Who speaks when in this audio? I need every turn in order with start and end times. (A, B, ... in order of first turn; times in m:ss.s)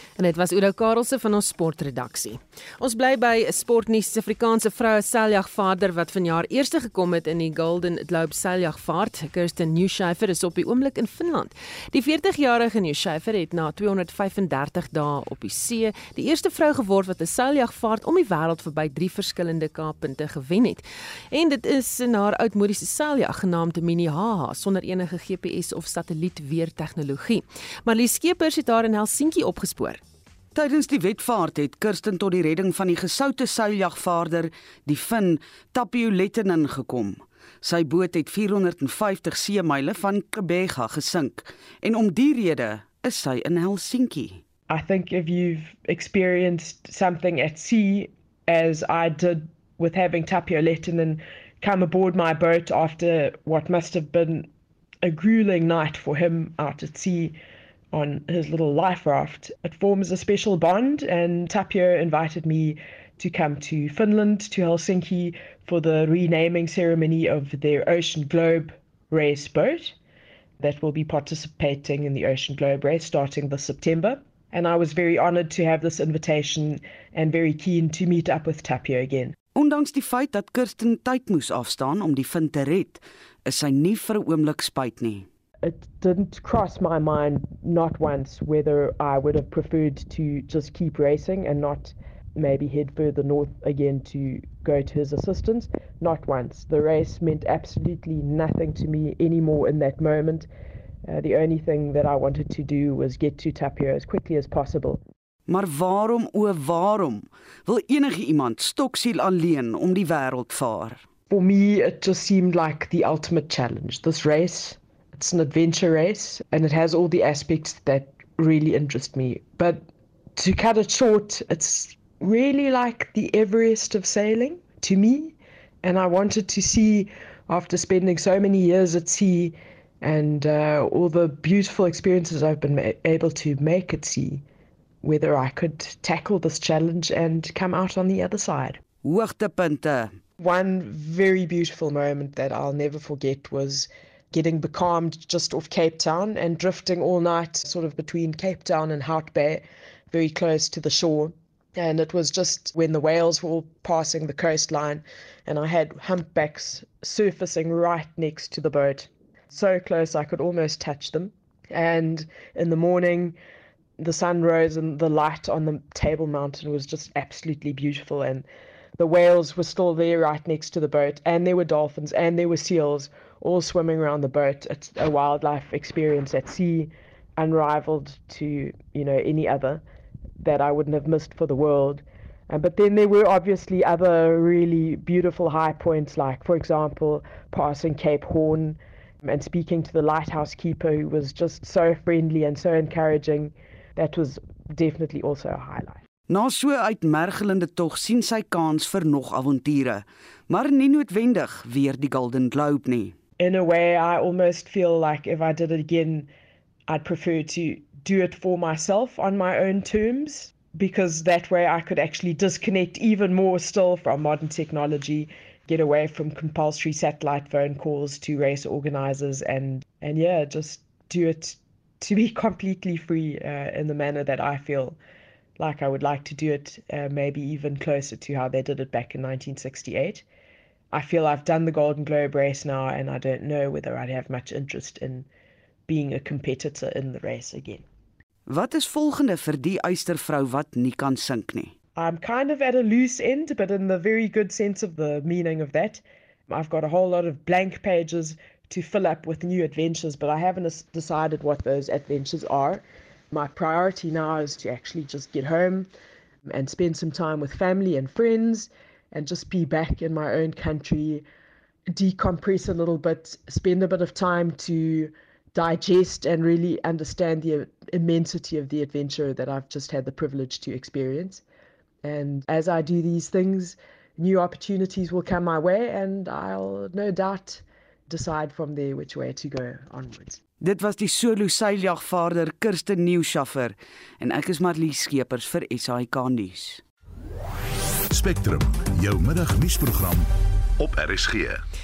0:00.2-0:30.0 A
0:30.5-0:44.4 B
0:44.7-0:54.5 C
0:55.0-0:57.3 C
0:57.9-1:09.9 C
1:10.6-1:19.3 C
1:19.5-1:25.3 B
1:25.6-1:40.5 C
1:41.0-1:45.0 C
1:45.5-1:51.0 B
1:51.3-1:59.8 C
2:00.4-2:14.4 C
2:15.0-2:18.8 C
2:19.0-2:20.2 B
2:20.4-2:43.3 C
2:44.0-2:48.4 C
2:49.0-2:59.8 C
3:00.4-3:16.0 C
3:16.3-3:23.2 B
3:23.4-3:26.3 C
3:26.9-3:45.0 C
3:45.6-3:50.2 C
3:50.9-3:55.3 C
3:55.9-3:57.8 C
3:58.5-4:01.7 B
4:02.0-4:15.9 C
4:16.5-4:21.2 C
4:21.9-4:31.4 C
4:32.0-4:40.4 C
4:40.6-4:46.8 B
4:48.1-4:51.6 D